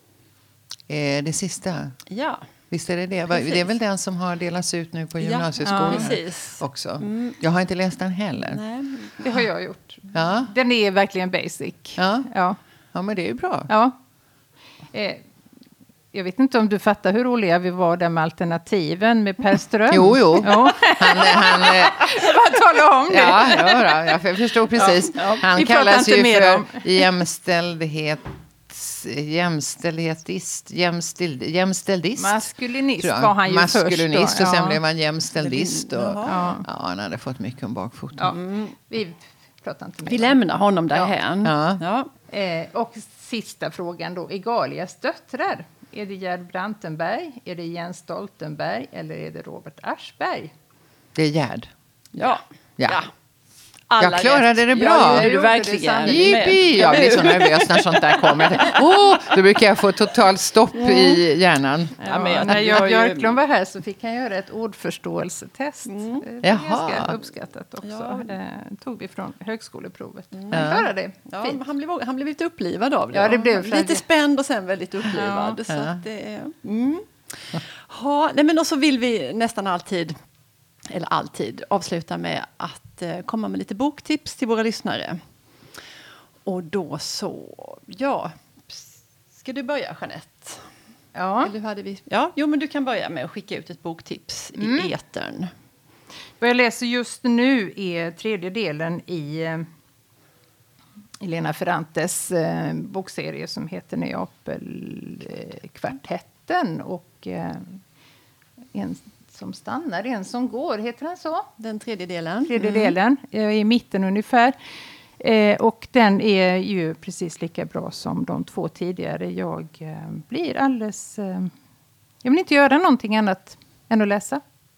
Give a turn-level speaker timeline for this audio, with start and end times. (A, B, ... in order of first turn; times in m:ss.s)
0:00.9-0:02.0 A
0:02.1-0:02.4 B
0:02.7-0:08.6 A
0:03.3-0:03.7 B
0:05.2-0:07.4 B
0:05.6-0:06.1 C
0:08.4-0:09.2 B
0:09.2-0:12.6 C
0:10.1-0:10.5 A
0:12.0-0:12.3 A
0:12.9-0:13.7 A
0:13.7-0:14.0 C
0:14.9-0:15.2 C
0:16.1-0:24.2 C
0:19.9-0:22.1 A
0:23.1-0:38.4 A
0:24.8-0:27.1 C
0:32.2-0:34.8 C
0:35.4-0:36.4 B
0:36.2-0:36.6 C
0:38.3-0:38.8 B
0:38.9-0:40.4 C
0:40.1-0:42.1 B
0:41.4-0:41.8 A
0:42.3-0:50.5 C
0:51.1-0:51.7 A
0:52.1-0:53.1 B
0:53.9-0:58.8 B
0:54.0-0:55.3 A
0:54.8-0:57.4 C
0:56.0-1:02.8 A
1:00.8-1:01.2 B
1:02.0-1:11.6 C
1:02.0-1:03.4 B
1:05.9-1:06.2 B
1:06.4-1:07.2 A
1:07.8-1:08.4 B
1:10.3-1:10.8 B
1:10.5-1:10.9 A
1:11.3-1:20.2 B
1:13.1-1:14.0 C
1:15.0-1:15.6 C
1:15.7-1:16.0 A
1:20.9-1:25.2 B
1:26.4-1:30.7 B
1:31.1-1:31.5 C
1:31.4-1:35.5 B
1:34.6-1:34.9 C
1:36.4-1:39.7 C
1:41.2-1:47.8 C
1:48.7-1:51.5 C
1:51.6-1:53.0 B
1:52.5-1:54.6 C
1:55.2-2:01.5 C
2:02.2-2:04.4 C